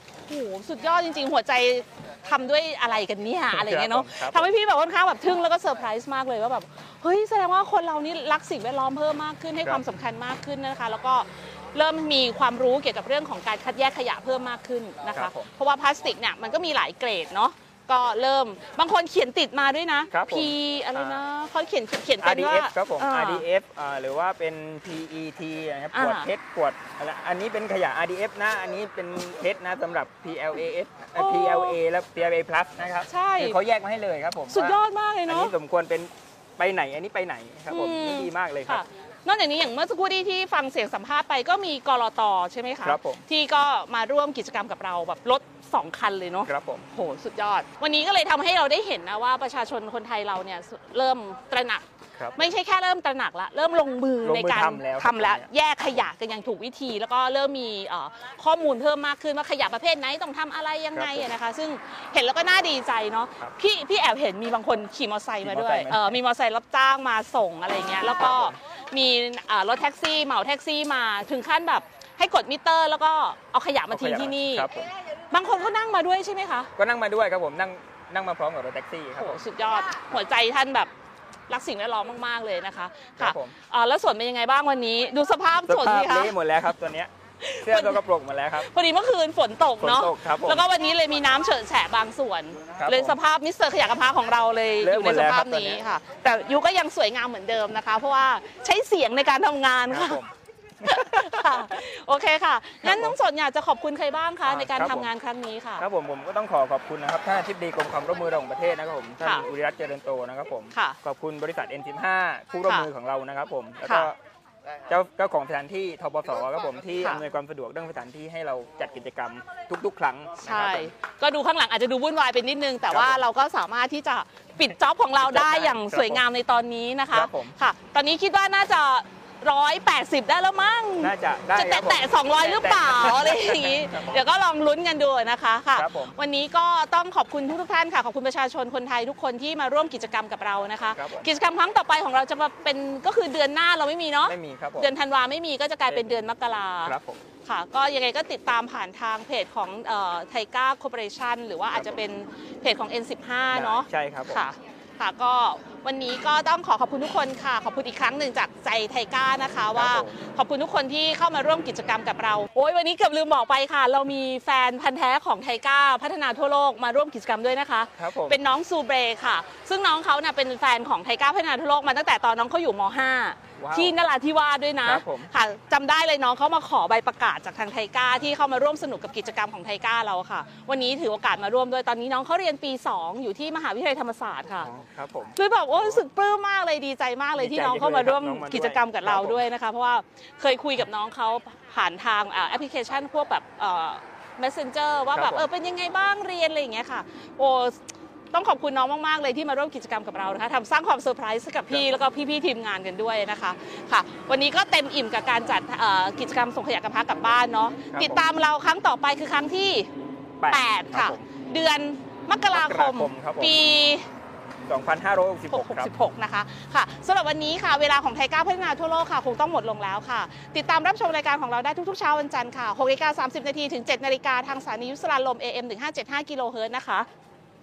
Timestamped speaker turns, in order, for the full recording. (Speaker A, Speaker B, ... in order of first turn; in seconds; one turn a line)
Speaker A: 0.3-23.4
Speaker B: 3.5-4.5
Speaker B: 15.1-15.5
Speaker B: 20.1-21.2
Speaker B: 22.2-38.8
Speaker A: 25.9-26.3
Speaker A: 31.1-31.8
Speaker A: 33.1-33.6
Speaker A: 34.5-35.5
Speaker A: 37.7-51.8
Speaker B: 42.8-43.2
Speaker B: 46.5-46.8
Speaker B: 52.2-52.4
Speaker A: 52.4-74.7
Speaker B: 54.2-55.5
Speaker B: 60.9-61.3
Speaker B: 65.4-66.2
Speaker B: 68.1-68.5
Speaker B: 73.9-74.9
Speaker A: 75.3-76.7
Speaker B: 76.8-79.4
Speaker A: 79.2-80.9
Speaker A: 81.5-86.3
Speaker B: 83.2-83.5
Speaker B: 85.7-87.1
Speaker A: 87.4-88.0
Speaker B: 87.6-88.7
Speaker A: 88.5-100.2
Speaker B: 89.8-90.6
Speaker B: 92.8-93.2
Speaker B: 94.8-95.8
Speaker B: 99.9-100.3
Speaker B: 100.8-101.8
Speaker A: 100.8-105.8
Speaker B: 102.8-103.2
Speaker B: 104.4-105.1
Speaker B: 105.8-114.2
Speaker A: 109.2-109.5
Speaker B: 114.9-120.9
Speaker A: 120.4-146.9
Speaker B: 122.9-123.2
Speaker B: 125.2-126.2
Speaker B: 127.1-127.5
Speaker B: 131.0-134.2
Speaker B: 135.7-136.2
Speaker B: 140.9-141.3
Speaker B: 144.2-144.9
Speaker B: 145.9-146.2
Speaker B: 146.8-147.2
Speaker A: 147.4-184.7
Speaker B: 151.7-152.0
Speaker B: 153.5-154.4
Speaker B: 159.7-160.1
Speaker B: 168.0-168.4
Speaker B: 173.6-173.9
Speaker B: 174.8-175.3
Speaker B: 184.6-186.0
Speaker A: 185.3-209.9
Speaker B: 187.4-189.4
Speaker B: 195.1-195.5
Speaker B: 201.7-202.0
Speaker B: 207.9-208.2
Speaker B: 210.4-211.2
Speaker A: 210.5-214.1
Speaker B: 212.5-213.6
Speaker B: 214.7-215.9
Speaker A: 215.5-227.1